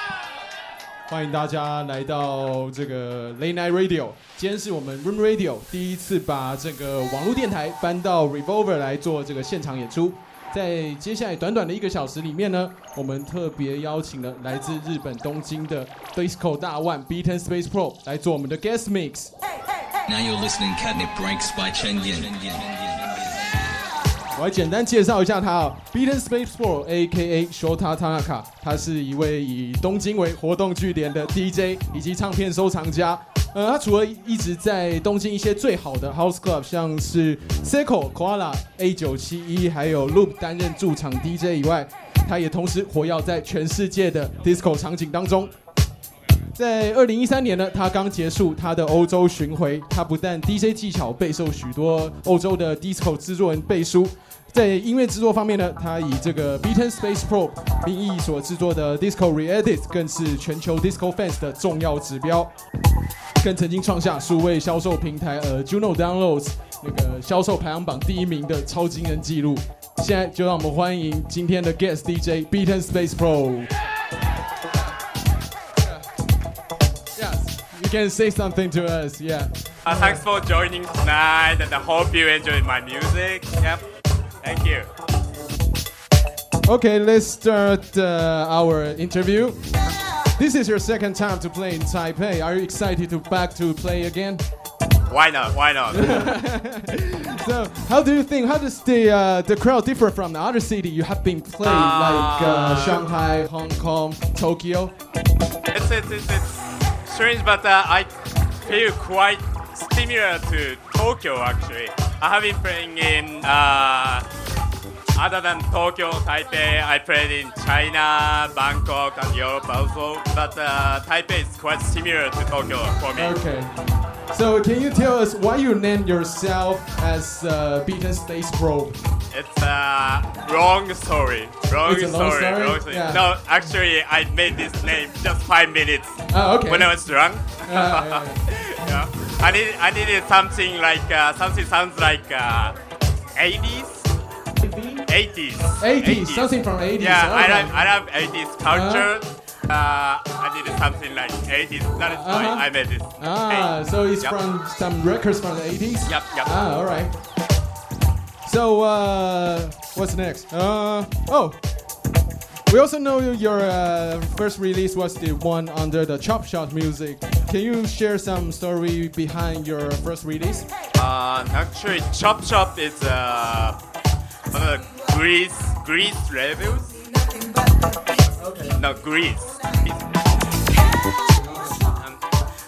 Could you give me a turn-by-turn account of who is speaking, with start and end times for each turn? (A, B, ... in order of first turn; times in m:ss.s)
0:01.1-0:19.3 A
0:20.1-0:23.2 B
0:24.3-0:45.5 A
0:46.5-1:02.5 A
1:03.4-1:13.7 A
1:17.1-1:20.2 A
1:19.8-1:23.8 C
1:24.4-1:24.9 C
1:26.6-1:29.6 A
1:30.4-1:34.4 A
1:35.1-1:36.3 C
1:35.9-1:44.9 A
1:41.6-1:43.0 C
1:45.7-1:54.3 C
1:55.1-2:03.4 C
2:03.2-2:03.7 A
2:04.3-2:09.0 A
2:09.3-2:22.8 C
2:11.8-2:13.2 A
2:16.3-2:17.0 A
2:17.6-2:18.4 A
2:23.3-2:24.1 C
2:24.6-2:25.0 A
2:25.1-2:34.4 C
2:25.8-2:27.8 A
2:28.7-2:29.1 A
2:32.1-2:37.1 A
2:36.1-2:36.6 C
2:38.4-2:41.6 A
2:42.7-2:50.7 A
2:50.9-2:53.8 C
2:54.5-2:57.0 C
2:58.4-2:58.8 A
2:58.7-2:59.9 C
3:01.3-3:01.8 A
3:01.8-3:02.2 C